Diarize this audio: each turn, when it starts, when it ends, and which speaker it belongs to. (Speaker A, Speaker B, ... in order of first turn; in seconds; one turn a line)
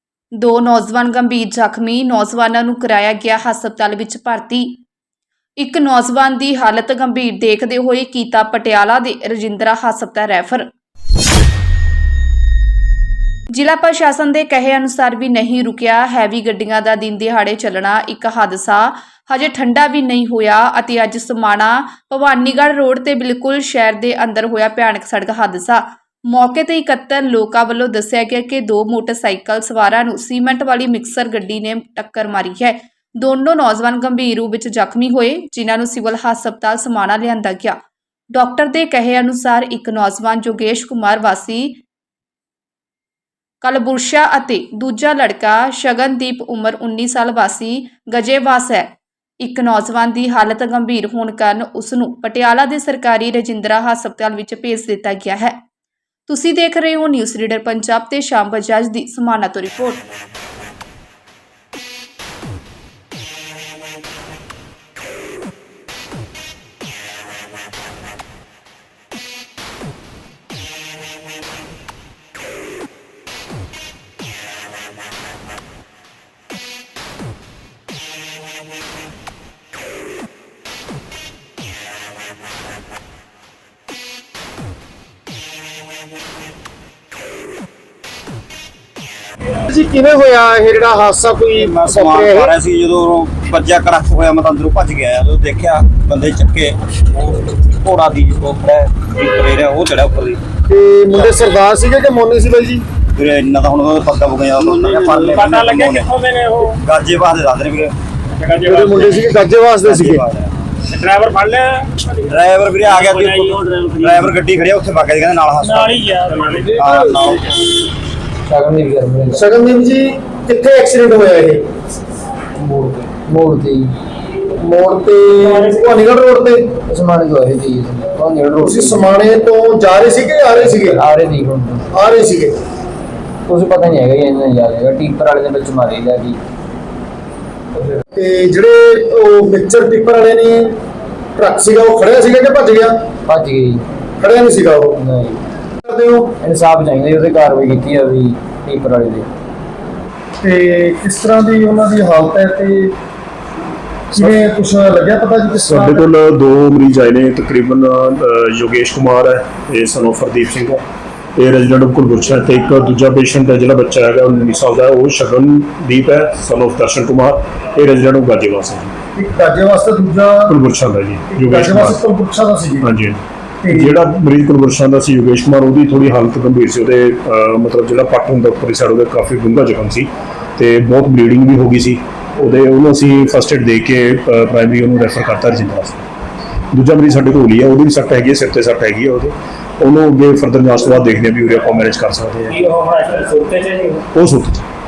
Speaker A: 0.3-4.8
Speaker A: 5.6-10.7
Speaker A: 13.5-37.8
Speaker A: 38.3-41.8
Speaker A: 43.6-55.6
Speaker A: 56.3-60.0
Speaker B: 89.7-92.5
Speaker C: 91.5-100.4
Speaker B: 100.7-102.8
Speaker C: 103.2-106.1
Speaker D: 104.6-106.8
Speaker C: 106.7-107.9
Speaker D: 108.4-109.3
Speaker B: 108.6-110.2
Speaker C: 109.8-110.6
Speaker D: 110.8-114.3
Speaker C: 112.3-116.1
Speaker D: 115.6-117.3
Speaker C: 116.7-117.8
Speaker E: 118.5-119.4
Speaker B: 119.3-121.6
Speaker E: 122.6-124.0
Speaker B: 124.5-126.7
Speaker E: 126.9-129.1
Speaker B: 128.6-131.0
Speaker E: 130.6-131.9
Speaker B: 131.9-132.6
Speaker E: 133.5-136.4
Speaker B: 138.0-140.7
Speaker B: 141.3-142.9
Speaker E: 143.3-143.8
Speaker B: 144.2-145.0
Speaker E: 145.0-145.4
Speaker B: 145.8-146.3
Speaker E: 146.4-149.3
Speaker B: 150.4-152.9
Speaker B: 154.1-156.0
Speaker F: 155.7-160.8
Speaker F: 161.3-168.9
Speaker B: 169.2-170.6
Speaker F: 170.5-172.0
Speaker B: 171.3-172.9
Speaker F: 172.8-186.0
Speaker B: 173.6-174.0
Speaker F: 186.7-192.6
Speaker D: 192.5-194.0
Speaker F: 194.1-194.6